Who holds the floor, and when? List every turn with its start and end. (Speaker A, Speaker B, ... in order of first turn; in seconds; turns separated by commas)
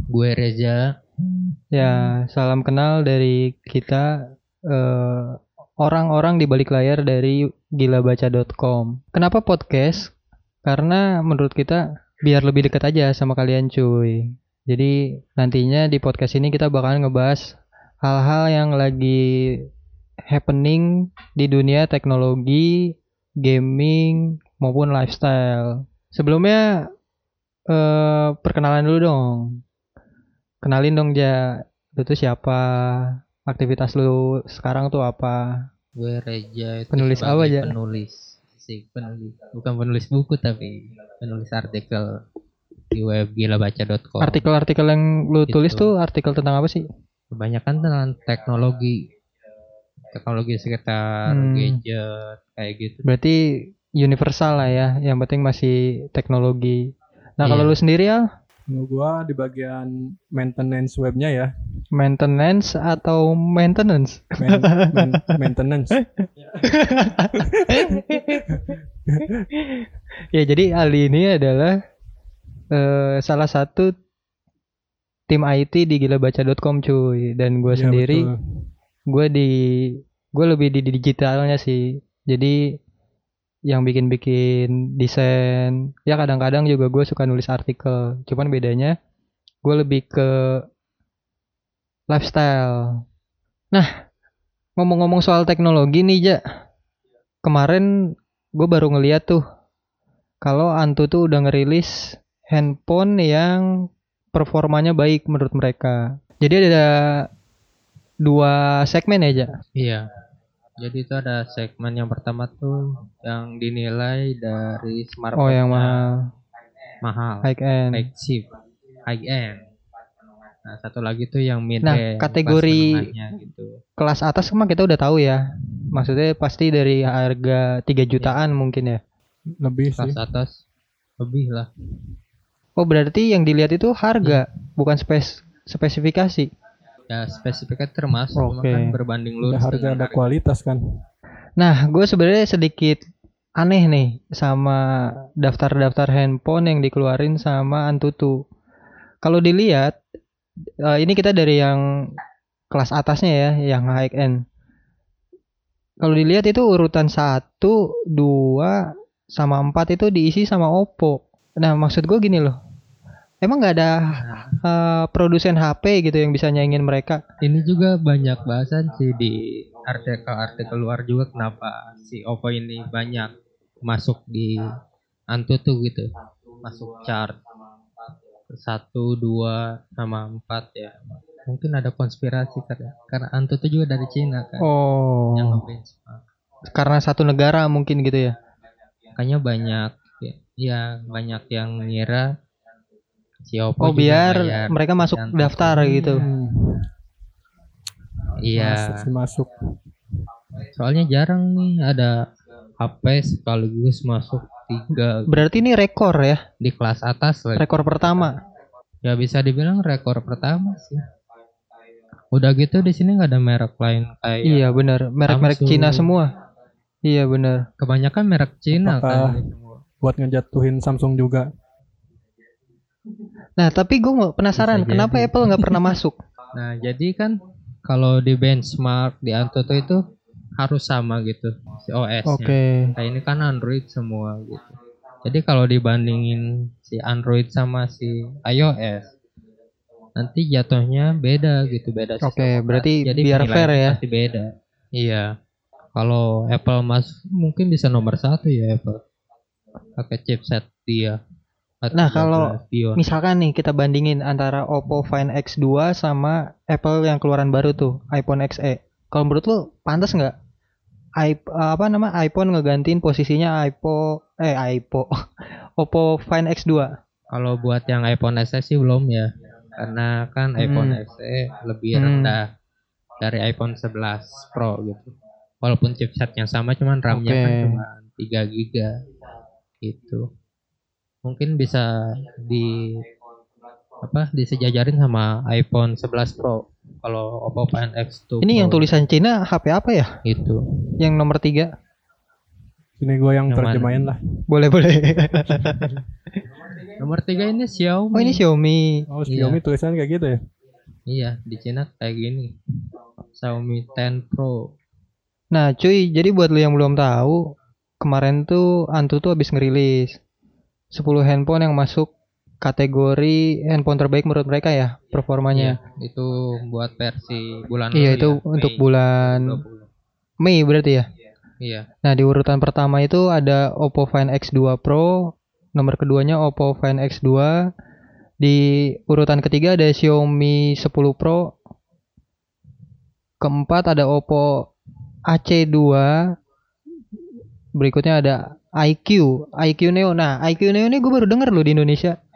Speaker A: 0.1-0.9, Speaker B: 1.7-4.1, Speaker B: 4.7-10.1, Speaker B: 10.6-17.4, Speaker B: 18.0-19.6, Speaker B: 20.3-22.9, Speaker B: 23.4-26.6, Speaker B: 27.7-29.4, Speaker B: 30.6-35.4, Speaker A: 36.0-42.1, Speaker B: 36.9-37.7, Speaker A: 42.9-44.4, Speaker B: 44.2-46.8, Speaker A: 45.5-45.9, Speaker A: 47.3-49.0, Speaker A: 50.1-53.0, Speaker B: 51.3-51.8, Speaker B: 53.0-53.4, Speaker B: 54.0-56.8, Speaker B: 57.4-58.2, Speaker A: 57.4-57.8, Speaker C: 58.7-61.5, Speaker B: 61.9-65.4, Speaker C: 64.4-66.0, Speaker B: 66.0-68.7, Speaker C: 67.4-69.4, Speaker B: 69.6-71.7, Speaker B: 72.7-73.9, Speaker B: 75.3-78.3, Speaker C: 77.7-78.4, Speaker B: 79.1-82.6, Speaker B: 83.7-88.9, Speaker B: 89.6-90.6, Speaker B: 92.1-93.0, Speaker B: 94.8-96.4, Speaker B: 97.4-97.9, Speaker B: 98.6-99.4, Speaker B: 100.4-101.9, Speaker B: 102.5-103.6, Speaker B: 104.3-107.2, Speaker B: 108.2-109.5, Speaker A: 109.8-110.0, Speaker A: 110.8-116.0, Speaker B: 115.3-116.2, Speaker A: 117.0-118.5, Speaker B: 117.4-118.1, Speaker A: 119.1-119.6, Speaker A: 120.7-123.7, Speaker B: 121.8-123.1, Speaker B: 124.0-125.4, Speaker B: 125.9-129.0, Speaker C: 129.6-130.2, Speaker A: 130.0-130.6, Speaker A: 131.2-131.7, Speaker B: 132.8-136.5, Speaker A: 137.1-140.2, Speaker B: 138.3-138.9, Speaker C: 139.4-140.8, Speaker B: 141.6-143.0, Speaker B: 143.6-144.9, Speaker B: 145.4-148.3, Speaker B: 149.2-149.9, Speaker B: 150.8-151.8, Speaker B: 152.7-154.4, Speaker B: 156.0-158.8, Speaker B: 159.3-162.6, Speaker B: 163.4-167.2, Speaker A: 164.1-164.5, Speaker A: 167.4-174.6, Speaker A: 175.3-176.1, Speaker A: 176.6-177.4, Speaker A: 178.5-184.7, Speaker B: 184.6-185.6, Speaker A: 185.3-186.2, Speaker B: 186.7-188.3, Speaker A: 189.2-192.3, Speaker A: 193.5-196.2, Speaker B: 193.8-196.2, Speaker C: 195.8-196.9, Speaker A: 198.4-199.1, Speaker C: 198.5-199.5, Speaker A: 200.8-202.2, Speaker A: 202.8-205.5, Speaker B: 205.3-206.4, Speaker A: 206.6-208.3, Speaker B: 207.6-208.4, Speaker A: 209.0-211.0, Speaker A: 212.3-216.1, Speaker B: 214.4-216.3, Speaker B: 217.1-217.6, Speaker A: 217.8-219.8, Speaker C: 218.7-219.4, Speaker C: 220.0-221.5, Speaker B: 223.6-226.2, Speaker A: 224.6-225.9, Speaker A: 226.5-227.3, Speaker A: 227.9-230.0, Speaker A: 230.6-239.1, Speaker B: 232.2-232.9, Speaker A: 240.2-245.2, Speaker B: 242.2-244.0, Speaker A: 245.9-249.0, Speaker A: 250.0-251.2, Speaker A: 251.8-253.0, Speaker B: 251.9-260.3, Speaker B: 261.2-265.1, Speaker B: 265.8-266.9, Speaker A: 267.3-272.4, Speaker B: 270.6-271.0, Speaker B: 271.9-272.4, Speaker A: 273.2-278.9, Speaker B: 277.1-277.8, Speaker A: 279.8-280.2, Speaker A: 281.2-283.1, Speaker A: 284.0-288.9, Speaker B: 288.4-290.1, Speaker A: 290.2-290.6, Speaker B: 291.0-291.7, Speaker C: 293.0-294.2, Speaker A: 293.5-294.1, Speaker B: 294.5-295.9, Speaker C: 295.5-296.0, Speaker A: 297.0-298.4, Speaker B: 298.1-299.0, Speaker C: 299.1-300.4, Speaker A: 299.3-299.6, Speaker A: 301.1-302.5, Speaker A: 303.4-304.7, Speaker B: 305.5-307.4, Speaker B: 308.0-310.2, Speaker B: 310.9-312.1, Speaker B: 312.6-315.8, Speaker A: 315.5-319.9, Speaker B: 317.9-319.6, Speaker B: 320.4-321.1, Speaker A: 321.6-321.9, Speaker B: 322.0-325.1, Speaker B: 325.8-327.5, Speaker B: 328.4-331.4, Speaker B: 333.4-334.7, Speaker B: 335.3-336.1, Speaker B: 337.8-342.1